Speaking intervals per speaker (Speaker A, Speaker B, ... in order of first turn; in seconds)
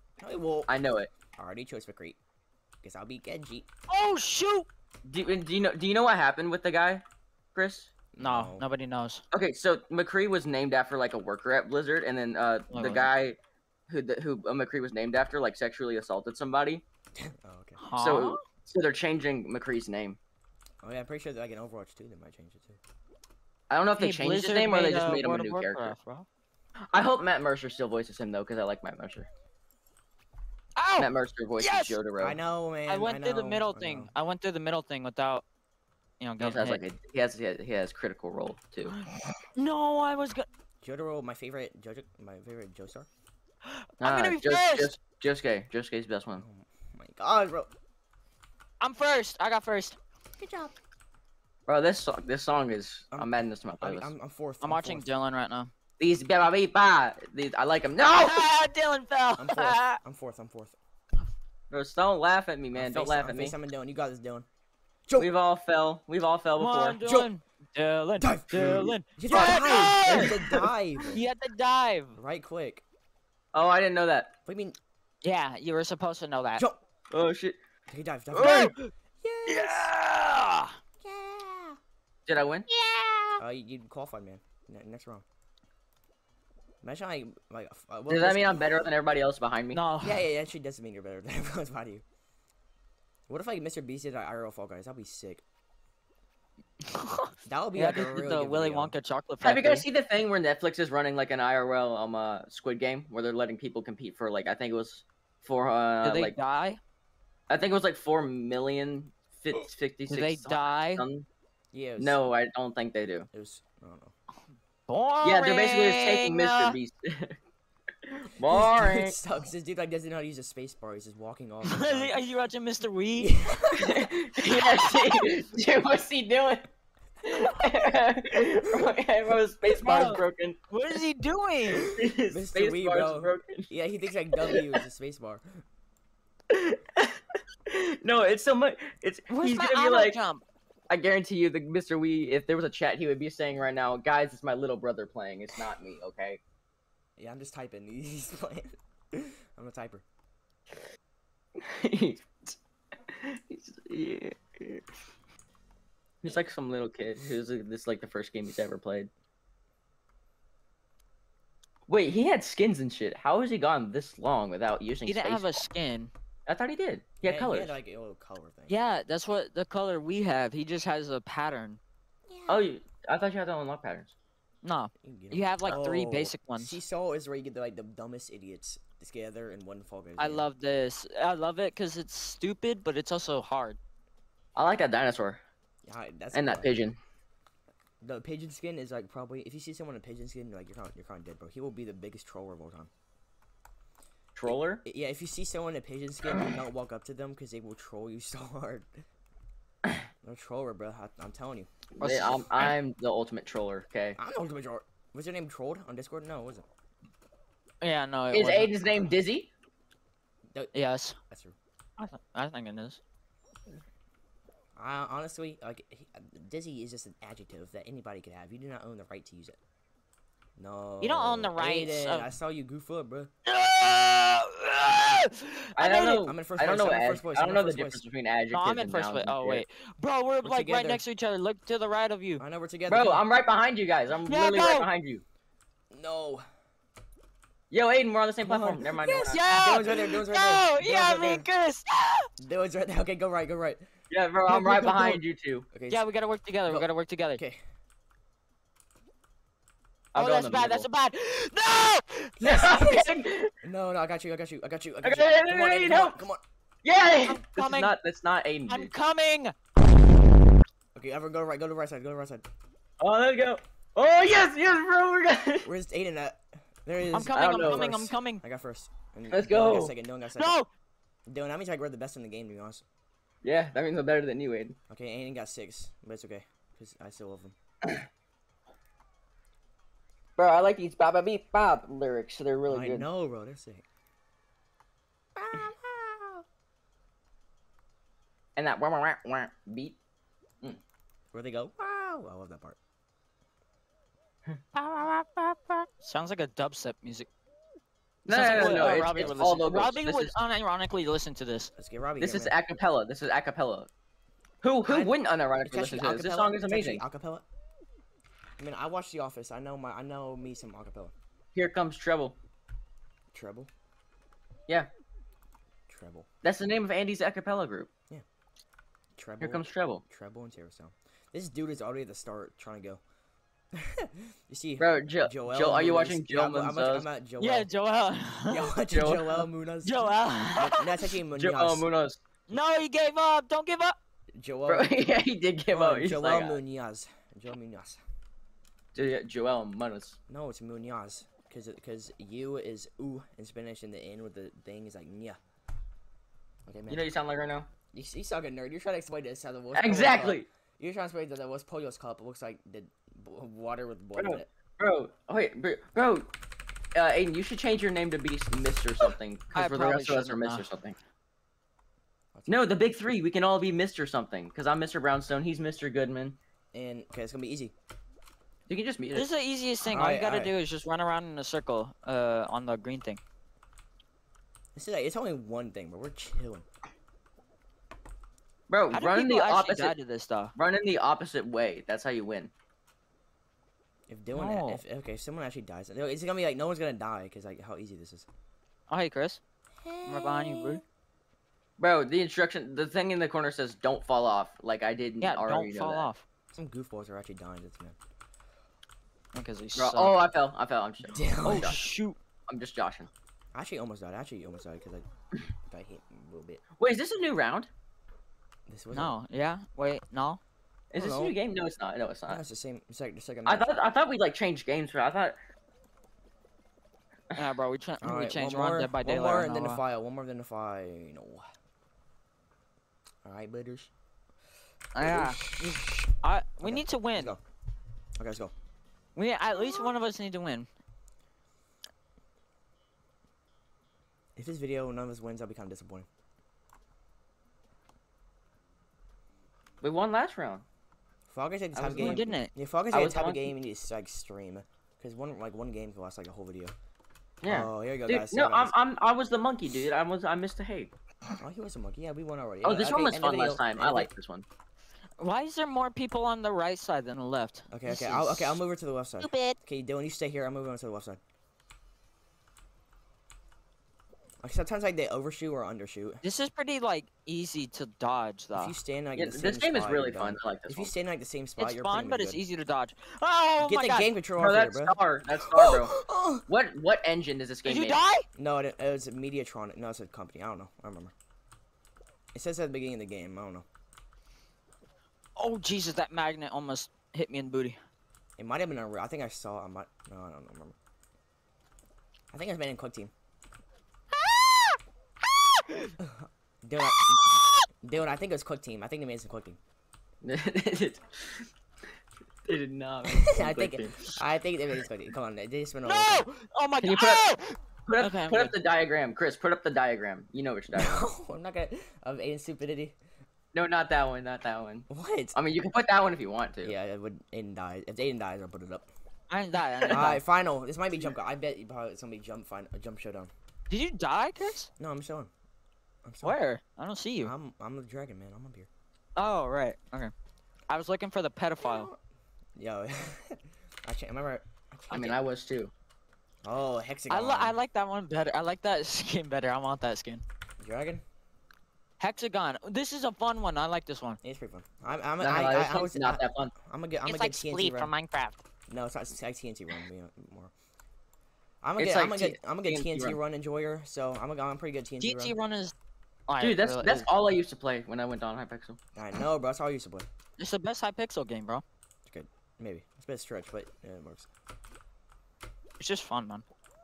Speaker A: 0.2-0.7, 1.4-2.2, 2.8-3.7, 8.1-8.7, 17.1-17.8, 20.8-22.8, 32.2-34.1, 40.8-43.1, 46.4-47.7, 53.1-55.1, 59.4-60.8, 62.7-64.5, 67.0-67.3, 68.2-71.2, 72.2-72.8, 74.5-74.8, 77.9-79.9, 83.4-85.2, 86.8-88.8, 90.0-92.0, 93.3-95.4, 97.5-98.9, 111.7-112.2, 113.3-114.1, 118.4-122.2, 123.2-124.1, 128.7-128.9, 132.3-135.4, 147.2-150.0, 167.2-168.8, 175.0-180.4, 185.8-186.7, 188.0-192.9, 194.5-199.0, 200.2-201.7, 204.2-206.7, 211.3-211.6, 214.8-219.6, 220.6-223.3, 226.2-228.0, 230.4-231.0, 232.4-233.2, 235.9-236.4, 238.4-241.5, 242.4-243.9, 245.7-246.1, 246.7-247.6, 252.4-256.4, 260.9-262.4, 265.6-270.6, 271.3-272.9, 274.9-277.6, 282.7-283.9, 291.3-292.8, 298.3-299.6, 301.8-302.5, 304.9-307.4, 308.6-311.1, 313.3-313.7, 315.9-316.3, 319.2-323.0, 323.7-327.7, 328.5-331.9, 334.4-335.0, 335.7-338.0, 340.3-345.4, 346.7-347.1, 347.9-354.5, 362.4-362.8, 366.7-367.7, 369.9-370.5, 374.8-376.7, 384.1-388.3, 396.5-398.0, 401.1-401.8, 403.5-405.1, 405.7-406.6, 408.7-409.1, 410.9-411.4, 412.3-413.7, 418.0-421.4, 423.2-423.9, 425.0-426.1, 426.6-427.4, 428.2-428.5, 434.4-436.1, 441.3-446.7, 447.5-448.7, 451.4-454.1, 457.7-461.2, 464.4-466.2, 468.6-472.4, 473.6-476.4, 478.4-481.1, 482.3-483.6, 488.4-490.8, 492.3-493.1, 496.0-499.6, 503.1-506.3, 510.7-513.0, 514.9-515.4, 516.6-518.9, 519.9-523.3, 524.8-525.3, 526.0-526.4, 527.2-528.7, 531.6-532.0, 532.6-535.2, 536.4-537.6, 540.6-541.0, 544.2-547.9, 548.7-550.5, 551.6-555.4, 559.0-560.1, 562.1-564.3
Speaker B: 0.7-1.1, 5.1-7.0, 7.5-7.9, 9.3-13.4, 13.9-16.8, 18.0-20.2, 23.7-26.0, 26.9-29.3, 31.0-32.4, 36.4-39.0, 44.0-46.4, 51.7-54.1, 56.0-58.5, 61.7-63.6, 65.2-67.0, 69.3-70.5, 73.5-74.3, 77.1-77.6, 82.3-82.7, 88.1-89.8, 99.4-106.4, 107.5-111.3, 112.0-113.3, 115.2-117.4, 118.1-119.2, 123.8-126.7, 127.2-130.6, 131.8-133.7, 134.3-134.8, 136.5-140.2, 140.9-146.4, 151.6-152.6, 153.1-154.8, 156.2-159.1, 161.9-165.7, 166.5-167.8, 172.5-174.1, 184.6-185.4, 186.3-187.0, 194.3-194.8, 202.0-204.2, 208.3-209.5, 225.8-229.6, 232.9-235.2, 237.7-239.8, 244.1-245.7, 250.1-250.9, 252.4-253.5, 255.0-256.2, 256.8-258.9, 263.0-265.7, 267.3-268.0, 269.3-269.9, 273.4-274.8, 280.4-283.1, 288.6-290.0, 298.2-300.3, 302.2-303.9, 304.6-307.0, 311.6-312.4, 316.4-317.9, 319.4-320.0, 324.8-327.1, 328.9-329.5, 331.4-332.2, 334.7-336.6, 338.9-340.2, 346.9-347.7, 349.7-350.5, 354.2-356.3, 356.9-361.0, 362.5-366.4, 368.7-369.3, 378.7-379.9, 380.6-382.5, 391.8-396.1, 399.8-401.8, 402.5-403.1, 406.8-407.7, 410.9-412.4, 413.5-415.4, 439.8-440.6, 441.8-442.2, 442.9-443.5, 447.4-450.9, 452.6-454.4, 469.2-470.9, 474.4-476.0, 476.5-478.0, 500.2-501.5, 502.4-504.2, 506.8-507.2, 507.9-511.1, 513.5-516.7, 534.9-535.7, 545.2-546.5, 551.8-553.2, 556.4-558.8
Speaker C: 3.9-4.7, 8.2-9.2, 12.7-13.1, 17.8-18.4, 24.0-26.3, 30.8-32.0, 32.9-35.5, 36.2-36.8, 39.6-40.5, 43.7-44.9, 48.8-50.0, 54.6-55.7, 58.1-60.0, 66.6-70.5, 71.1-72.2, 75.2-76.6, 78.3-78.9, 79.5-80.8, 89.7-90.2, 96.9-99.8, 106.0-106.8, 110.1-111.0, 114.9-116.8, 121.7-123.3, 129.7-131.9, 139.3-140.4, 165.1-166.1, 168.7-171.8, 174.6-176.8, 180.2-183.8, 202.0-202.8, 207.8-208.7, 210.7-211.2, 212.0-213.0, 221.0-222.3, 223.5-226.2, 228.5-232.4, 234.3-234.9, 239.0-242.3, 244.5-245.2, 245.9-247.4, 250.2-252.8, 257.3-257.9, 258.7-259.6, 267.1-268.4, 270.4-270.7, 294.7-297.3, 298.3-301.7, 327.4-328.7, 329.9-330.9, 332.5-334.0, 359.5-360.7, 369.1-373.2, 378.9-380.5, 384.3-384.8, 388.9-389.4, 390.1-390.8, 395.2-396.2, 399.3-400.2, 401.4-402.2, 408.9-410.4, 417.3-419.8, 424.9-427.4, 429.2-430.7, 441.9-442.5, 455.2-458.6, 466.2-468.8, 471.6-474.1, 477.6-478.3, 485.4-487.8, 494.2-494.8, 495.4-495.9, 497.1-497.7, 505.9-508.5, 519.3-520.2, 523.7-524.7, 526.2-527.3, 529.2-530.1, 530.7-531.9, 537.1-540.2, 542.0-544.2, 547.0-548.4, 555.0-555.7, 556.3-557.1, 560.4-561.6, 565.8-566.5
Speaker D: 50.4-50.7, 81.0-81.8, 82.7-83.4, 172.3-172.7, 285.4-286.4, 389.9-390.8, 429.6-429.9, 459.2-459.6